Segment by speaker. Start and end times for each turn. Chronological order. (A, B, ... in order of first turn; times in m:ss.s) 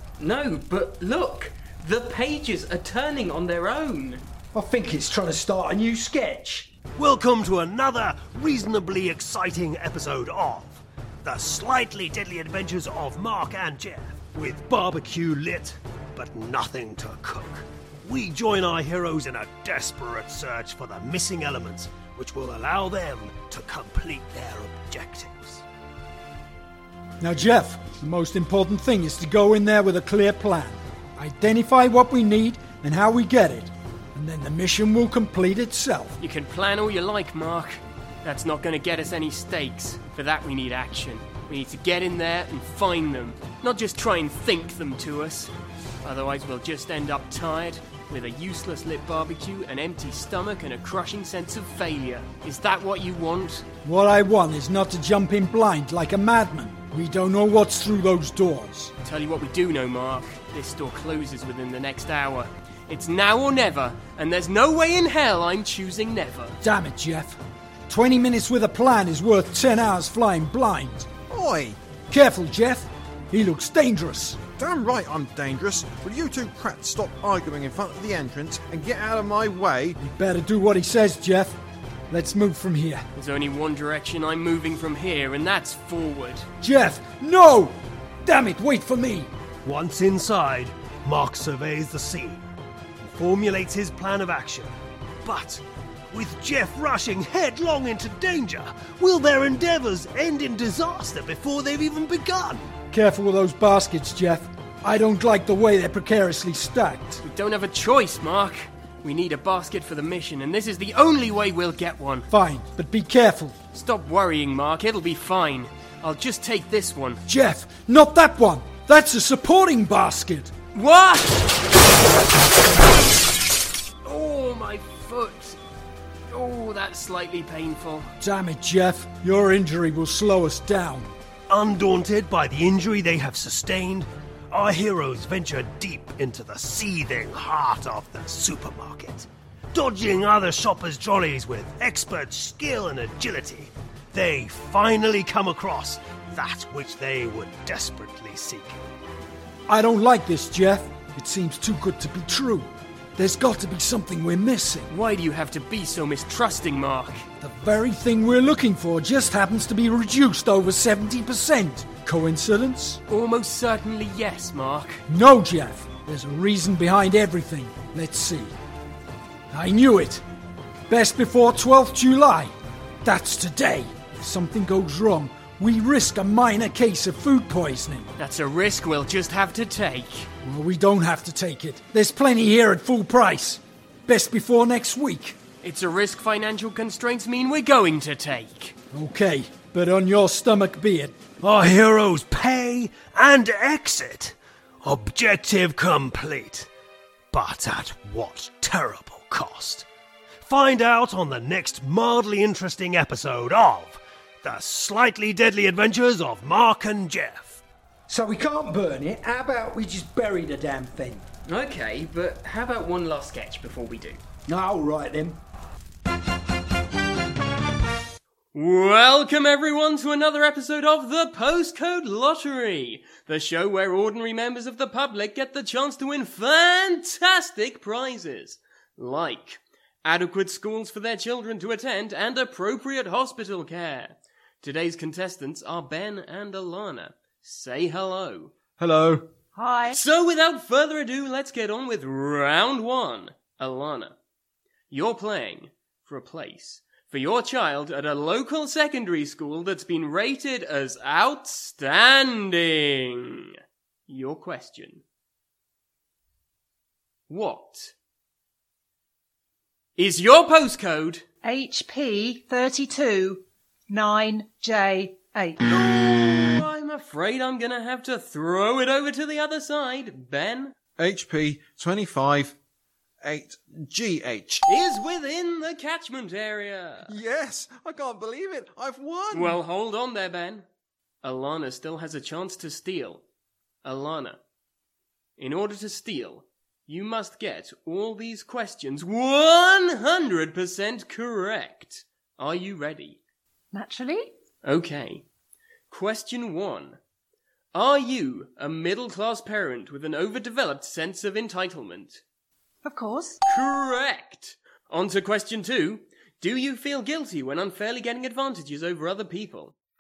0:00.2-0:04.2 A
0:04.5-0:06.7 B
0:07.0-0:25.6 C
0:27.2-0:36.2 D
0:36.2-0:45.5 E
0:46.0-0:53.6 E
0:53.8-0:58.9 D
0:59.0-1:06.6 E
1:06.6-1:07.4 D
1:07.9-1:11.1 D
1:11.3-1:11.8 F
1:12.1-1:14.4 D
1:14.6-1:20.0 F
1:20.0-1:21.6 D
1:22.1-1:23.0 D
1:23.2-1:26.5 E
1:26.6-1:29.3 D
1:29.6-1:32.4 C
1:33.0-1:34.7 C
1:35.2-1:42.7 C
1:42.9-1:47.2 D
1:47.2-1:52.3 E
1:52.3-1:53.6 D
1:53.7-1:57.2 E
1:57.3-2:00.5 D
2:00.7-2:01.6 E
2:04.0-2:05.6 E
2:06.3-2:08.1 E
2:08.2-2:11.1 D
2:11.5-2:28.7 C
2:29.7-2:34.9 D
2:34.9-2:37.2 E
2:37.4-2:43.0 D
2:43.1-2:45.0 E
2:45.1-2:48.5 D
2:49.5-2:50.2 D
2:50.9-2:52.5 D
2:53.0-2:58.1 D
2:58.2-3:00.3 E
3:00.4-3:05.4 D
3:05.6-3:08.8 E
3:08.9-3:11.2 D
3:11.4-3:16.7 C
3:17.3-3:19.9 C
3:20.4-3:27.6 C
3:28.1-3:31.2 B
3:31.4-3:34.2 A
3:34.5-3:35.4 B
3:38.5-3:58.5 E
3:58.8-3:59.3 F
3:59.6-4:00.0 G
3:59.9-4:04.2 E
4:04.9-4:13.5 E
4:14.1-4:15.0 E
4:17.3-4:17.9 E
4:20.0-4:21.2 E
4:21.4-4:25.6 G
4:25.6-4:30.7 E
4:31.0-4:32.6 F
4:33.2-4:34.6 F
4:34.7-4:37.1 E
4:37.1-4:39.6 F
4:39.3-4:40.6 E
4:41.2-4:43.2 E
4:43.8-4:44.4 E
4:45.4-4:53.2 E
4:53.7-4:54.3 G
4:54.6-4:55.2 E
4:55.9-4:57.0 E
4:57.7-5:02.2 E
5:02.8-5:03.4 G
5:03.5-5:09.8 E